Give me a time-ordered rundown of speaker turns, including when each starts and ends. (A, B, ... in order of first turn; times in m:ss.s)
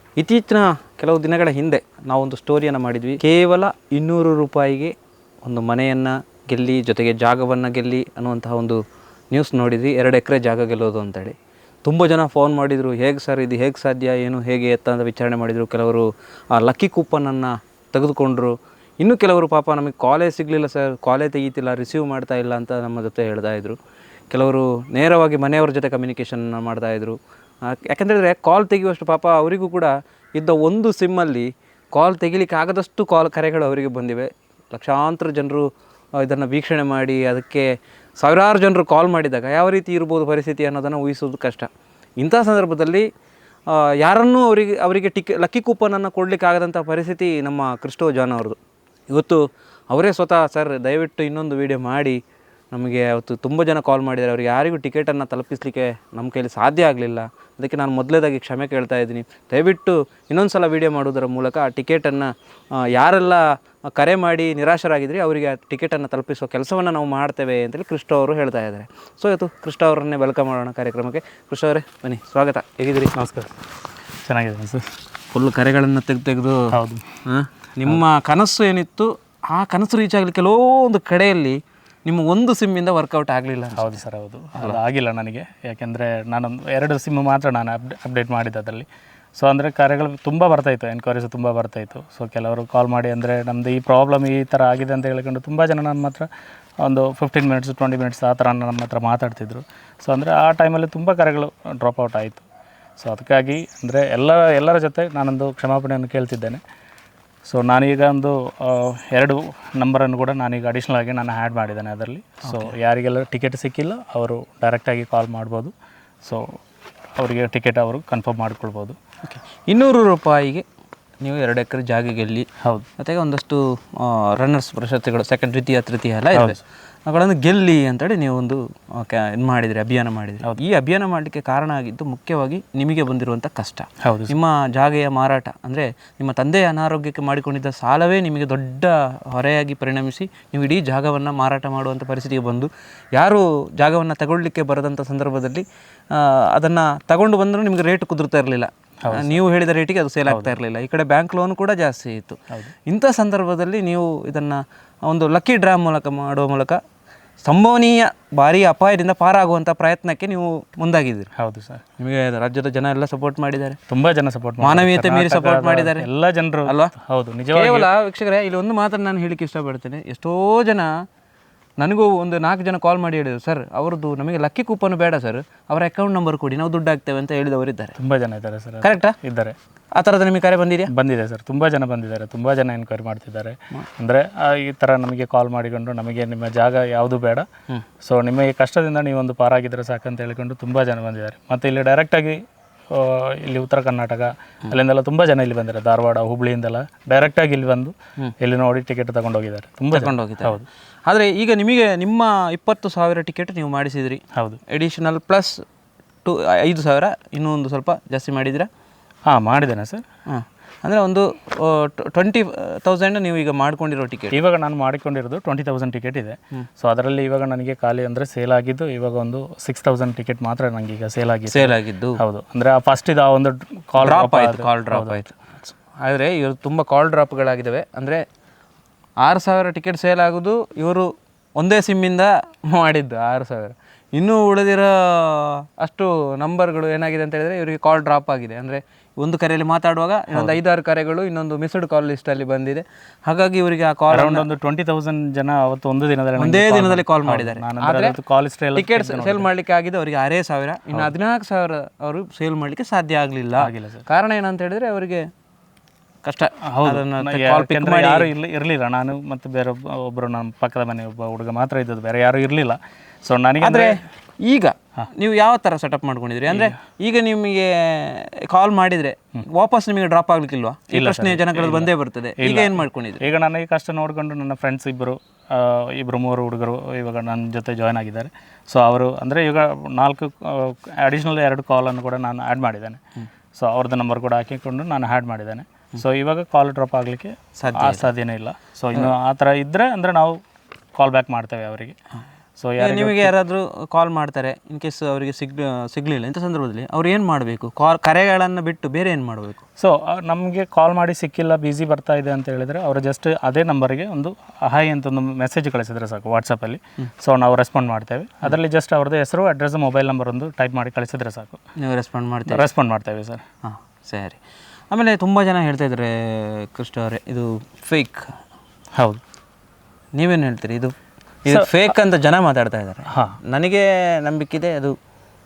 0:00.2-0:23.8 A
0:24.3-0:37.7 A
0:38.2-0:41.7 A
0:42.2-0:43.1 A
0:43.7-0:48.6 A
0:49.1-0:52.2 A
0:52.7-1:13.1 A
1:13.1-1:13.5 B
1:14.2-1:14.9 B
1:15.3-1:24.0 A
1:16.7-1:17.0 B
1:23.8-1:36.3 B
1:36.8-1:42.4 B
1:43.0-1:46.6 B
1:47.4-1:56.6 B
1:52.4-1:52.7 A
1:57.2-1:59.0 B
1:59.2-2:00.6 A
2:01.2-2:02.5 A
2:02.6-2:02.9 B
2:03.0-2:36.8 A
2:06.3-2:06.6 B
2:14.0-2:14.3 B
2:29.0-2:29.4 B
2:30.3-2:30.5 B
2:37.4-2:41.3 A
2:41.4-2:41.8 B
2:42.0-2:43.8 A
2:43.9-2:47.9 B
2:44.6-2:46.0 A
2:46.6-2:46.9 A
2:47.5-2:51.0 A
2:51.8-2:58.0 A
2:58.0-2:59.6 B
2:58.8-2:59.1 A
2:59.9-3:00.9 A
3:00.9-3:07.5 B
3:08.0-3:20.6 B
3:19.9-3:25.6 A
3:24.3-3:24.6 B
3:26.2-3:28.7 A
3:29.3-3:30.0 B
3:30.3-3:34.4 A
3:34.3-3:45.2 B
3:41.5-3:42.2 A
3:44.0-3:48.2 A
3:49.2-4:04.4 A
4:04.1-4:09.5 B
4:06.4-4:08.2 A
4:08.7-4:15.3 A
4:13.6-4:14.0 B
4:16.2-4:18.3 A
4:16.6-4:24.0 B
4:23.6-4:33.2 A
4:26.5-4:26.8 B
4:30.9-4:43.0 B
4:43.5-4:50.4 B
4:47.6-4:48.1 A
4:51.0-4:52.0 B
4:52.6-4:53.3 B
4:52.8-4:59.6 A
4:59.8-5:11.6 B
5:11.8-5:12.6 A
5:12.5-5:13.4 B
5:13.6-5:14.4 A
5:14.9-5:18.2 A
5:20.1-5:20.9 A
5:21.4-5:24.9 A
5:23.1-5:23.4 B